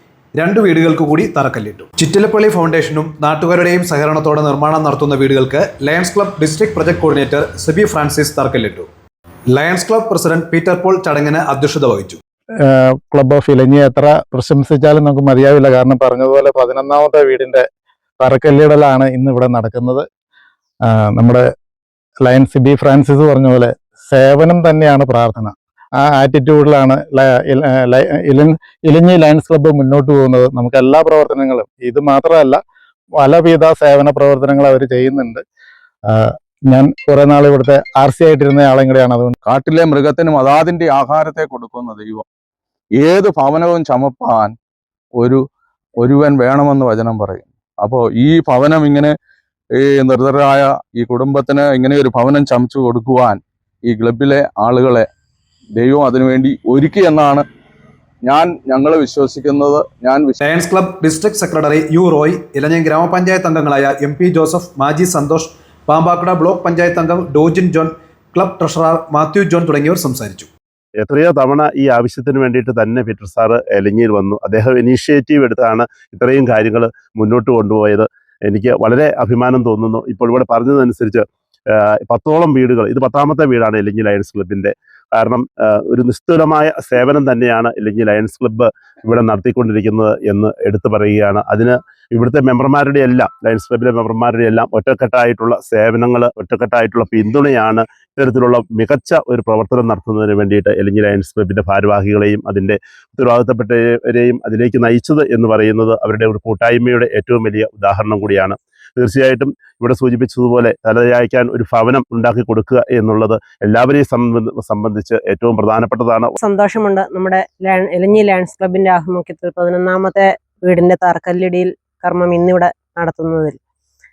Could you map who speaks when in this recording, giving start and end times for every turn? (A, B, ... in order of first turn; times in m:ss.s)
0:00.3-0:08.9 A
0:09.5-0:12.2 A
0:12.6-0:17.6 B
0:18.2-0:20.0 B
0:21.1-0:21.4 B
0:22.2-0:32.6 B
0:33.2-0:35.4 B
0:36.1-0:39.3 B
0:39.4-0:42.2 C
0:43.0-0:44.5 C
0:46.0-0:49.1 C
0:49.8-0:55.0 C
0:55.8-0:57.4 C
0:58.2-1:00.4 C
1:00.4-1:10.5 A
1:11.0-1:56.3 D
1:56.4-2:03.6 E